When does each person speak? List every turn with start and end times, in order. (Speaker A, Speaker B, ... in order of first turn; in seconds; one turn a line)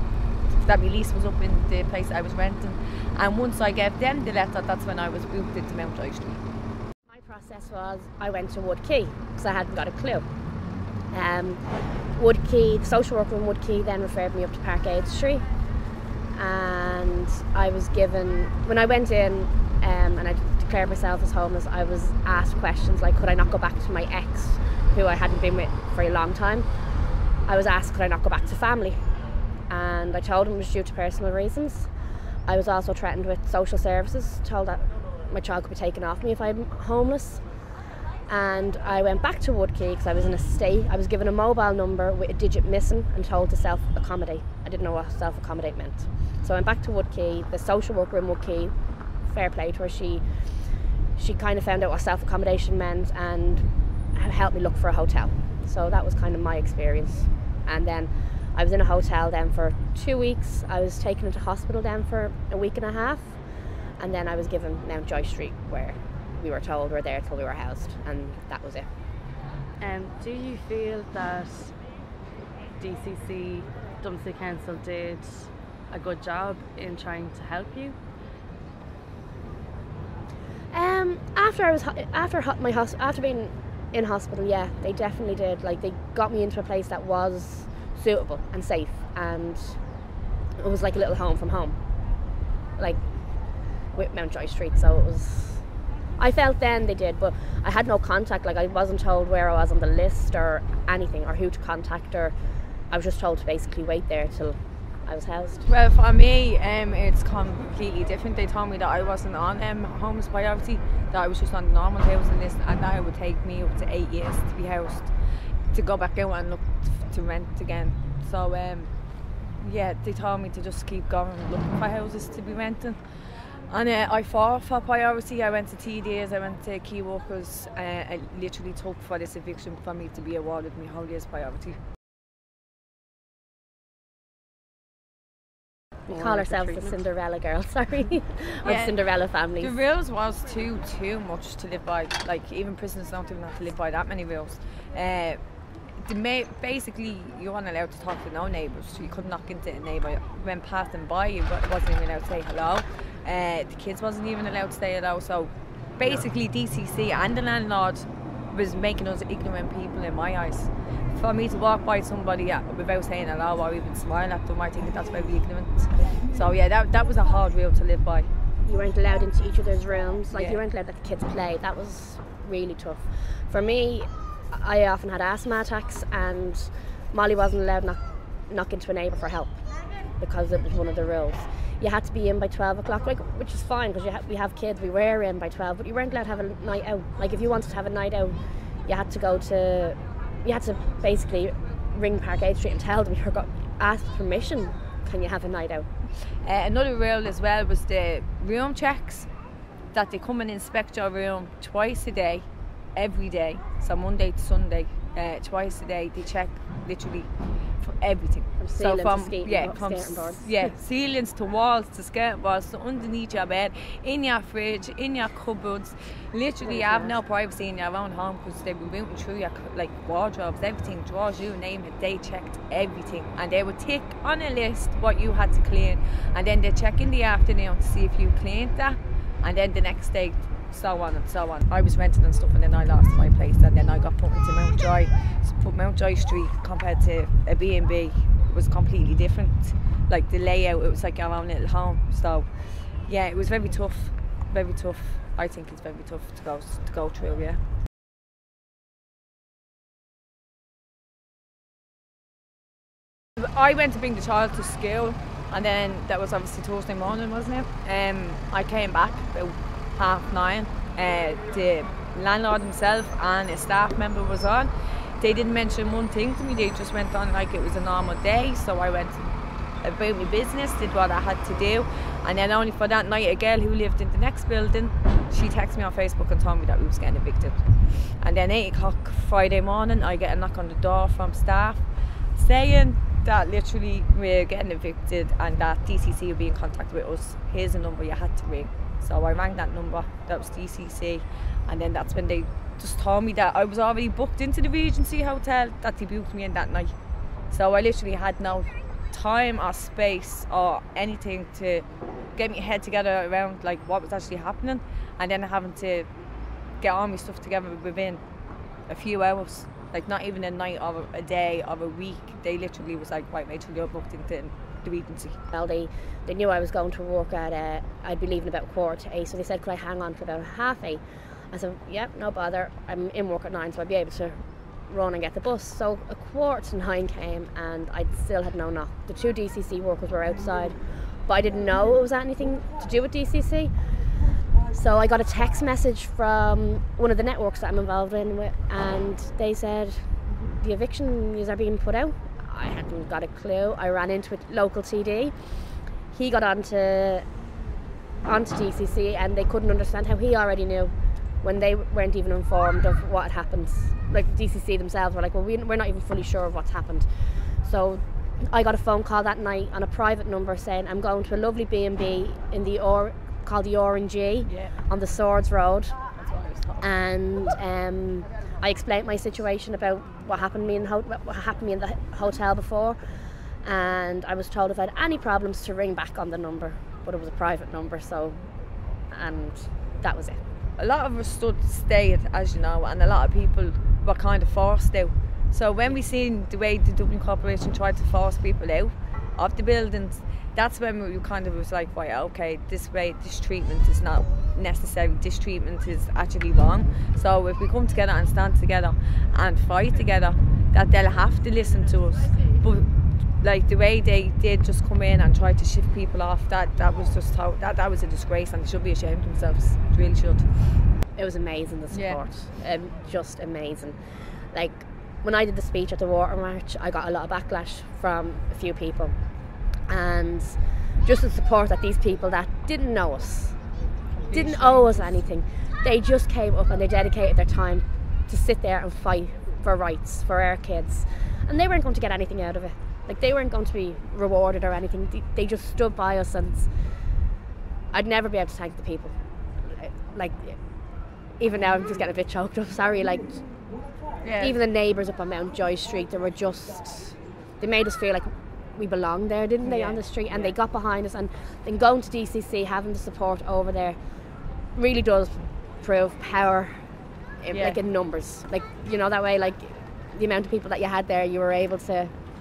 Speaker A: 0.5-6.4
Speaker B: 7.1-10.2
Speaker B: 11.1-15.5
Speaker B: 16.4-26.7
Speaker B: 27.5-29.0
Speaker B: 29.7-31.9
Speaker B: 32.5-37.4
Speaker B: 38.3-63.4
Speaker B: 64.0-68.9
Speaker C: 69.8-71.8
Speaker C: 72.8-78.0
Speaker B: 80.7-89.8
Speaker B: 90.6-91.8
Speaker B: 93.9-95.7
Speaker B: 96.2-102.3
Speaker B: 102.9-105.7
Speaker A: 105.6-115.1
Speaker A: 115.7-118.9
Speaker A: 119.6-131.8
Speaker B: 136.1-139.8
Speaker C: 136.1-137.0
Speaker A: 138.6-139.0
Speaker A: 139.6-145.4
Speaker A: 146.0-168.3
Speaker B: 168.6-179.6
Speaker A: 170.3-170.6
Speaker B: 180.2-195.9
Speaker A: 196.2-199.3
Speaker A: 199.9-247.6
Speaker B: 208.6-210.8
Speaker B: 216.6-217.1
Speaker A: 253.4-281.8
Speaker A: 282.3-296.9
Speaker A: 297.5-306.1
Speaker A: 306.8-308.2
Speaker A: 308.9-315.4
Speaker B: 315.5-333.7
Speaker B: 334.7-345.5
Speaker B: 346.1-347.2
Speaker B: 348.2-365.9
Speaker A: 364.4-364.8
Speaker A: 366.2-366.9
Speaker B: 366.8-373.1
Speaker B: 373.6-378.5
Speaker B: 379.1-380.4
Speaker A: 380.8-410.5
Speaker B: 411.1-419.1
Speaker A: 411.9-412.2
Speaker B: 419.9-423.6
Speaker A: 424.2-425.2
Speaker B: 424.3-436.7
Speaker B: 437.9-440.6
Speaker B: 441.4-443.5
Speaker A: 444.2-444.6
Speaker B: 444.4-454.0
Speaker A: 449.6-450.6
Speaker B: 454.8-456.9
Speaker B: 457.4-462.1
Speaker A: 457.5-457.8